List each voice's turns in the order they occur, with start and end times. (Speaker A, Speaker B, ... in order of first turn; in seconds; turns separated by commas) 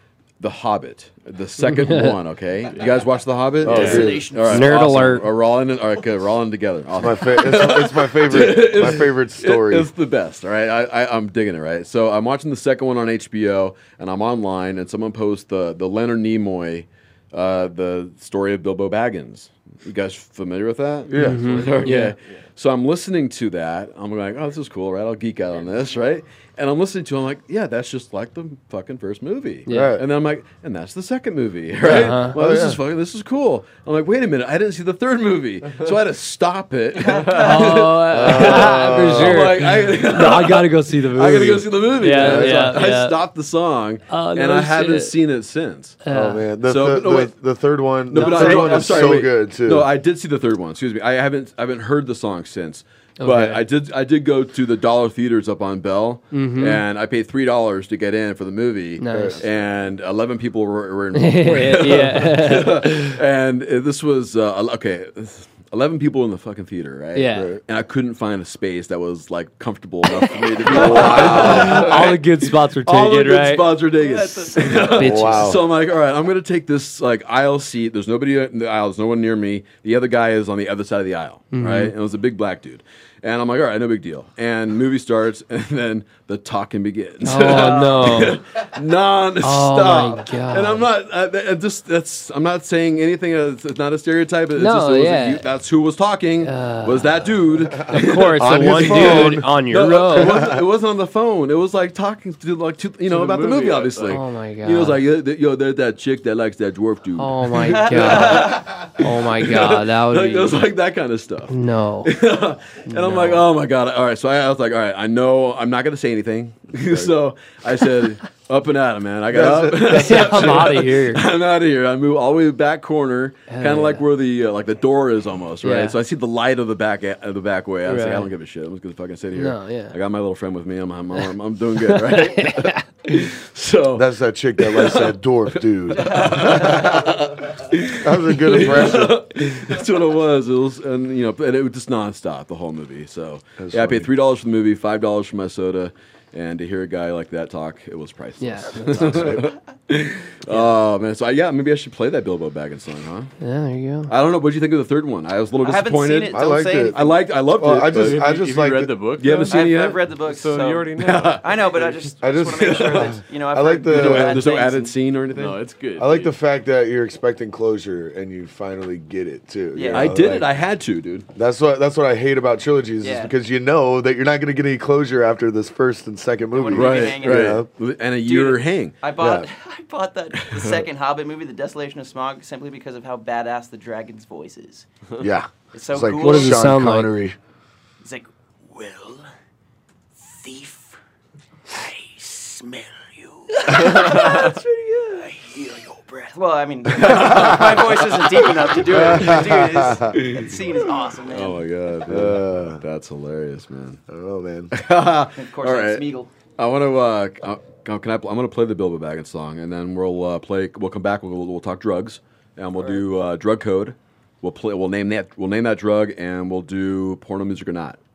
Speaker A: 0.4-46.0, Speaker B: 1.6-2.2, Speaker C: 3.6-4.4, Speaker D: 3.6-4.1, Speaker E: 3.7-4.8, Speaker B: 4.5-5.3, Speaker C: 7.0-9.9, Speaker C: 21.1-21.8, Speaker B: 21.2-22.1, Speaker D: 21.2-22.4, Speaker B: 29.6-30.0, Speaker C: 29.7-30.0, Speaker B: 31.8-32.4, Speaker C: 31.9-32.8, Speaker B: 37.3-43.2, Speaker C: 38.1-39.5, Speaker C: 42.1-42.8, Speaker B: 44.1-45.2, Speaker B: 46.0-46.5, Speaker C: 46.1-49.9, Speaker A: 46.6-47.3, Speaker A: 48.1-135.1, Speaker E: 48.1-49.2, Speaker B: 53.2-53.6, Speaker B: 56.3-56.9, Speaker B: 59.0-59.4, Speaker C: 59.1-59.4, Speaker B: 61.1-63.2, Speaker B: 67.1-67.5, Speaker C: 67.3-67.6, Speaker C: 70.7-72.0, Speaker B: 70.8-73.9, Speaker E: 74.0-74.8, Speaker C: 74.9-75.6, Speaker B: 74.9-75.6, Speaker B: 81.5-81.9, Speaker B: 87.2-88.7, Speaker B: 89.4-90.9, Speaker B: 94.5-95.5, Speaker B: 96.4-97.3, Speaker B: 97.9-100.4, Speaker C: 98.4-99.5, Speaker C: 100.0-100.6, Speaker D: 103.0-104.2, Speaker B: 104.1-105.0, Speaker B: 107.1-110.7, Speaker E: 107.6-108.7, Speaker B: 111.5-112.2, Speaker B: 112.8-113.5, Speaker C: 116.8-117.1, Speaker C: 119.3-120.7, Speaker B: 119.9-121.2, Speaker B: 123.5-124.1, Speaker B: 125.6-126.0, Speaker B: 127.8-128.3, Speaker B: 129.3-130.0, Speaker B: 131.1-132.8, Speaker C: 133.9-137.0, Speaker A: 135.9-153.3, Speaker C: 138.0-139.2, Speaker C: 143.6-144.1, Speaker B: 148.4-149.4, Speaker C: 149.0-149.4, Speaker B: 153.4-154.1, Speaker A: 154.1-158.2, Speaker E: 155.6-157.2, Speaker C: 156.3-158.9, Speaker D: 157.9-159.5, Speaker A: 159.2-160.1, Speaker E: 159.5-164.9, Speaker D: 160.1-162.1, Speaker A: 161.0-161.4, Speaker C: 162.2-164.5, Speaker A: 162.6-163.1, Speaker A: 163.9-165.6, Speaker D: 165.3-166.4, Speaker C: 166.0-170.5, Speaker E: 169.7-170.3, Speaker A: 169.9-171.3, Speaker C: 171.3-177.7, Speaker E: 173.0-173.3, Speaker E: 176.5-177.6, Speaker A: 176.7-179.0, Speaker E: 178.2-184.8, Speaker C: 179.2-179.5, Speaker A: 180.3-180.8, Speaker C: 185.2-187.4, Speaker E: 185.7-186.7, Speaker B: 186.2-187.1, Speaker E: 188.0-189.2, Speaker E: 190.2-191.0, Speaker E: 191.7-201.6, Speaker B: 193.7-195.3, Speaker A: 193.9-194.3, Speaker A: 196.8-204.0, Speaker C: 198.9-200.1, Speaker C: 202.1-202.8, Speaker C: 204.1-204.7, Speaker A: 204.7-206.0, Speaker E: 205.3-206.3, Speaker A: 206.6-218.0